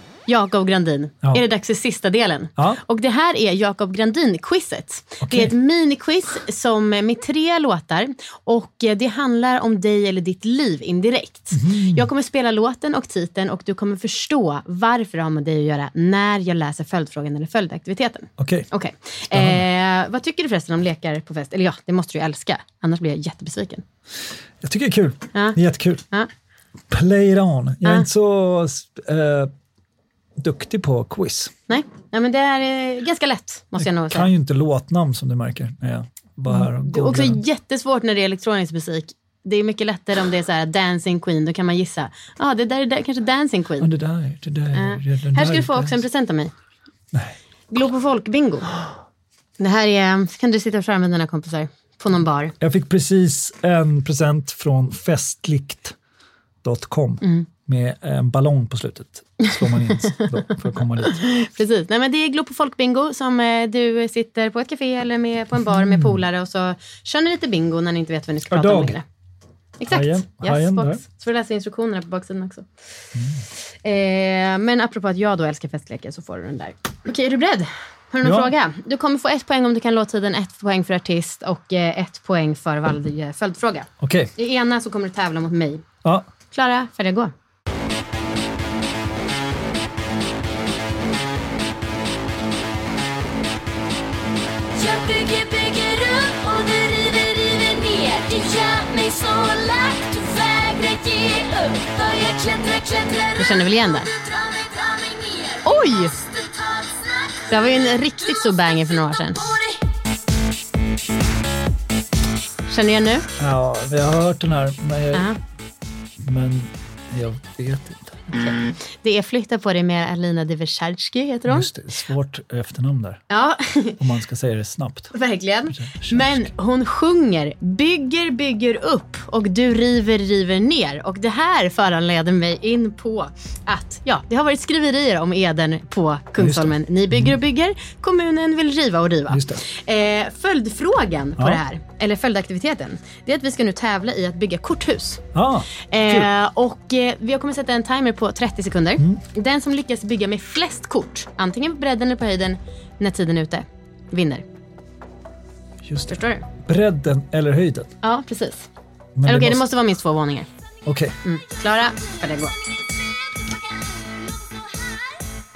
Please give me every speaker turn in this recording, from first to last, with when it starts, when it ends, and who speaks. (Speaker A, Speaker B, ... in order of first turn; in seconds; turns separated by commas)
Speaker A: 0.3-23.8, Speaker B: 5.2-5.5, Speaker B: 11.5-12.1, Speaker B: 18.4-18.7, Speaker B: 19.3-19.6, Speaker B: 24.6-26.0, Speaker B: 26.9-29.5, Speaker B: 30.4-31.6, Speaker A: 31.7-34.3, Speaker B: 33.8-37.4, Speaker A: 36.5-43.9, Speaker B: 43.8-46.0, Speaker A: 44.7-46.5, Speaker A: 47.7-48.8, Speaker A: 49.6-52.5, Speaker B: 52.6-56.0, Speaker B: 56.6-61.2, Speaker A: 57.2-57.5, Speaker A: 59.5-60.2, Speaker A: 61.0-69.0, Speaker B: 65.6-66.2, Speaker B: 68.5-69.0, Speaker A: 69.8-72.7, Speaker B: 69.9-71.0, Speaker B: 73.2-73.5, Speaker A: 73.8-85.8, Speaker B: 78.2-78.5, Speaker B: 84.0-84.3, Speaker A: 86.5-87.3, Speaker C: 94.8-107.5, Speaker A: 103.4-104.1, Speaker A: 105.6-106.2, Speaker A: 107.5-109.5, Speaker C: 109.3-109.7, Speaker A: 112.7-113.3, Speaker B: 113.4-115.3, Speaker A: 115.1-115.4, Speaker B: 116.2-118.7, Speaker A: 119.0-121.7, Speaker B: 121.5-123.2, Speaker A: 123.3-124.0, Speaker B: 124.0-125.1, Speaker A: 125.1-145.3, Speaker B: 125.7-126.5, Speaker B: 136.4-137.4, Speaker B: 139.3-139.6, Speaker B: 145.3-146.3, Speaker A: 145.9-154.4, Speaker B: 149.0-149.2, Speaker B: 155.8-157.9, Speaker A: 156.1-156.4, Speaker A: 158.0-158.7, Speaker B: 159.2-159.7, Speaker A: 159.3-160.5, Speaker B: 160.9-161.2, Speaker A: 161.2-162.6, Speaker C: 163.0-165.2